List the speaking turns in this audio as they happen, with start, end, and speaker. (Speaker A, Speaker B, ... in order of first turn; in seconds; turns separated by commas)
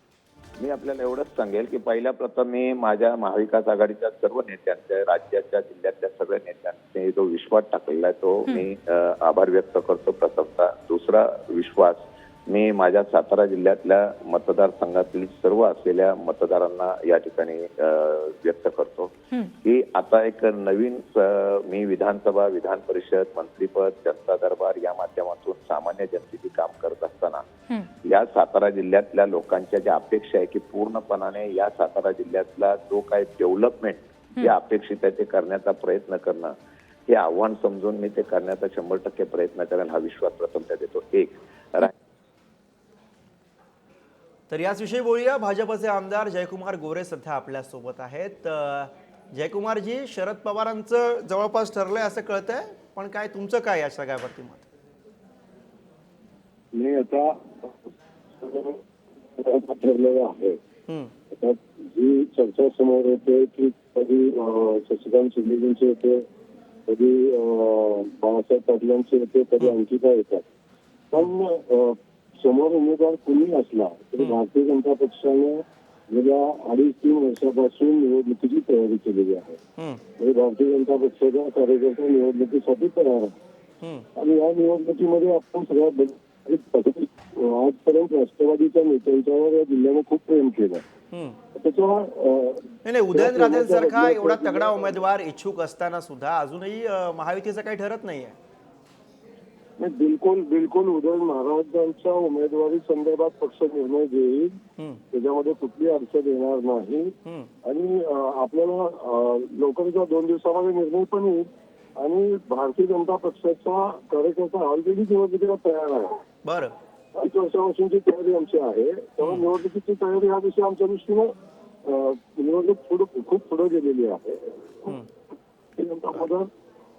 Speaker A: 0.6-27.5, Speaker A: 28.0-36.5, Speaker A: 37.1-41.9, Speaker B: 44.5-54.7, Speaker C: 56.7-58.8, Speaker C: 59.4-60.6, Speaker C: 61.3-66.2, Speaker C: 66.9-70.5, Speaker C: 71.1-79.6, Speaker B: 79.8-80.0, Speaker C: 80.2-83.3, Speaker B: 83.8-84.1, Speaker C: 84.1-90.8, Speaker B: 91.1-91.4, Speaker C: 91.5-95.0, Speaker B: 92.8-98.4, Speaker C: 99.8-104.6, Speaker C: 105.1-116.2, Speaker B: 107.2-107.5, Speaker B: 116.5-116.8, Speaker C: 117.1-124.9, Speaker B: 119.2-119.5, Speaker C: 125.8-126.5